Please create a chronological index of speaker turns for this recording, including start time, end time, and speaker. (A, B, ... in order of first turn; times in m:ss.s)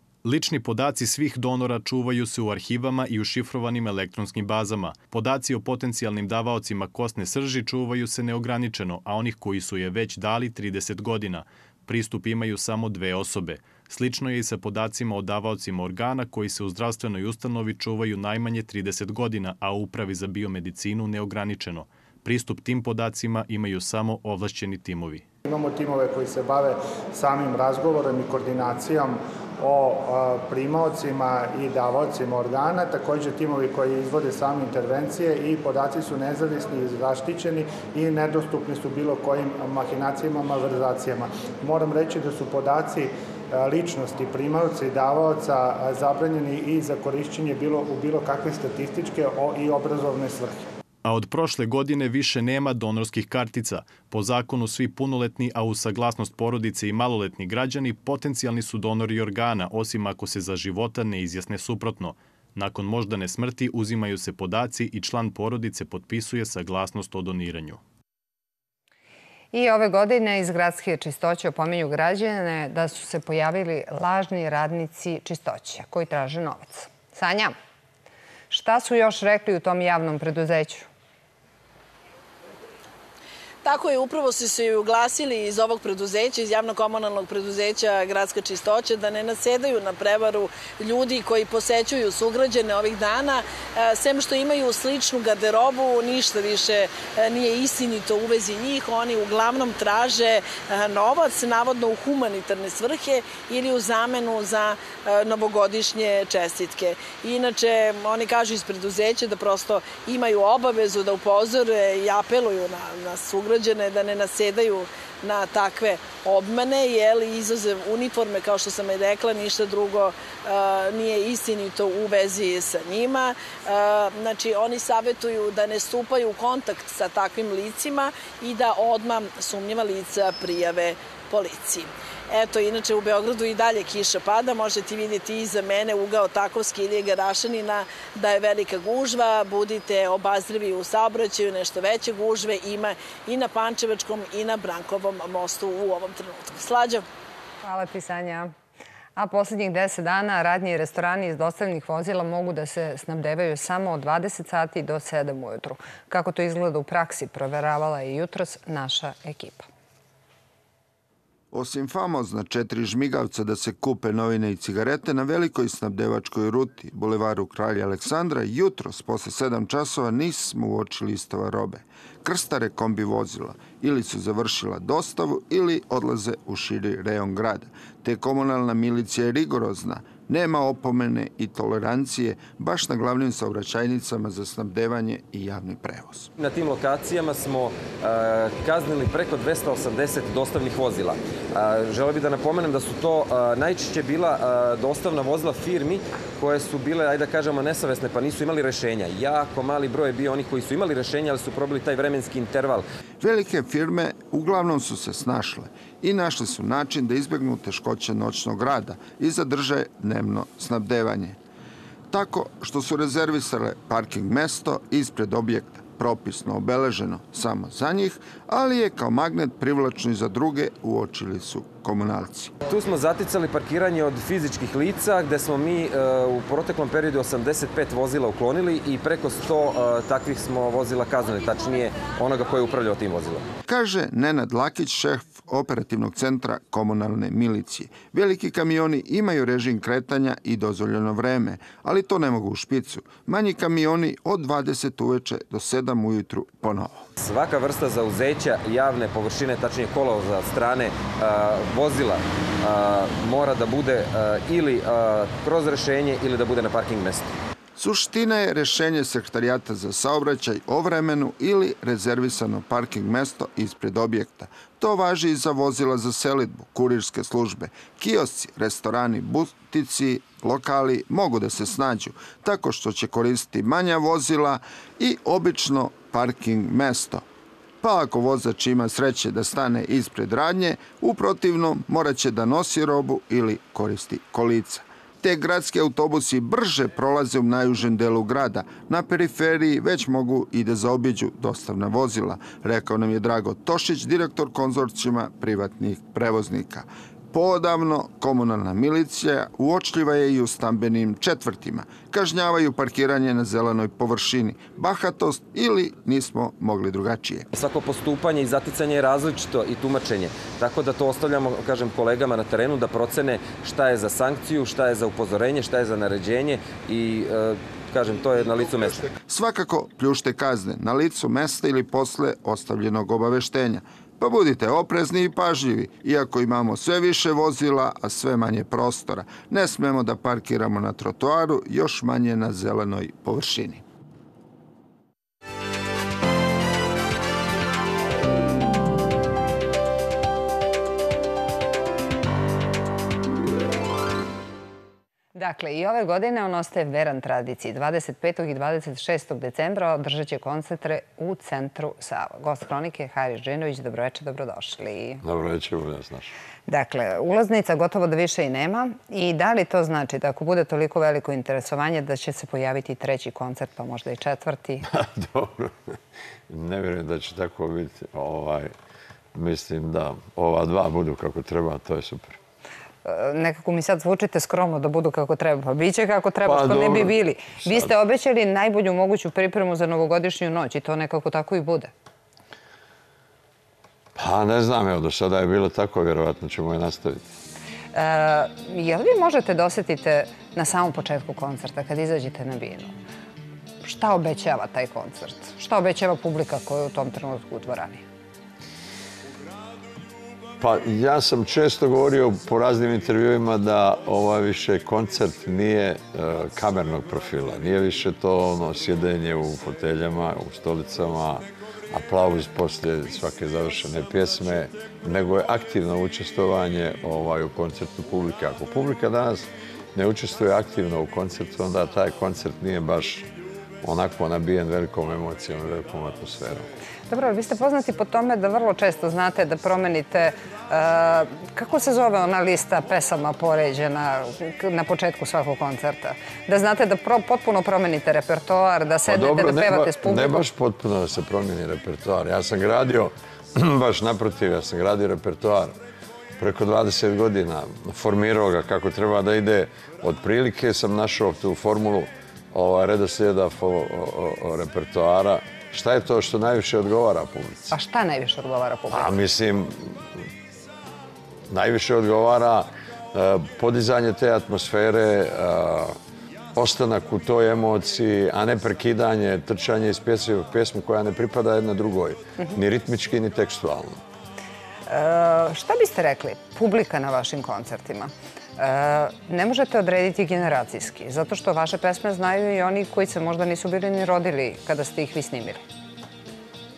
0:00.2-0:25.2 A
0:25.4-0:50.6 B
0:51.0-1:07.8 A
1:09.5-1:17.5 C
1:18.5-1:20.9 C
1:23.6-2:27.0 D
2:27.6-2:28.5 C
2:29.2-2:39.6 C
2:41.5-3:06.3 E
3:06.4-3:22.8 F
3:23.2-3:31.4 E
3:32.1-3:42.5 E
3:42.6-3:53.5 F
3:53.7-4:07.0 E
4:07.2-4:17.3 F
4:17.8-4:37.2 E
4:37.8-5:07.5 E
5:07.5-5:19.1 F
5:19.2-5:33.8 E
5:45.4-5:55.2 C
5:55.2-5:56.3 G
5:56.7-6:04.8 C
6:04.8-6:05.9 G
6:06.5-6:08.7 G
6:09.4-6:12.4 G
6:13.0-6:21.9 C
6:16.4-6:17.9 G
6:24.2-6:27.3 G
6:27.9-6:32.9 C
6:33.8-6:38.0 C
6:40.6-7:03.3 G
7:03.8-7:06.7 G
7:07.1-7:20.4 C
7:19.1-7:25.7 G
7:26.4-7:37.7 G
7:37.7-7:39.1 C
7:38.9-7:40.2 G
7:41.5-7:46.0 G
7:46.5-7:54.0 G
7:54.9-8:05.6 C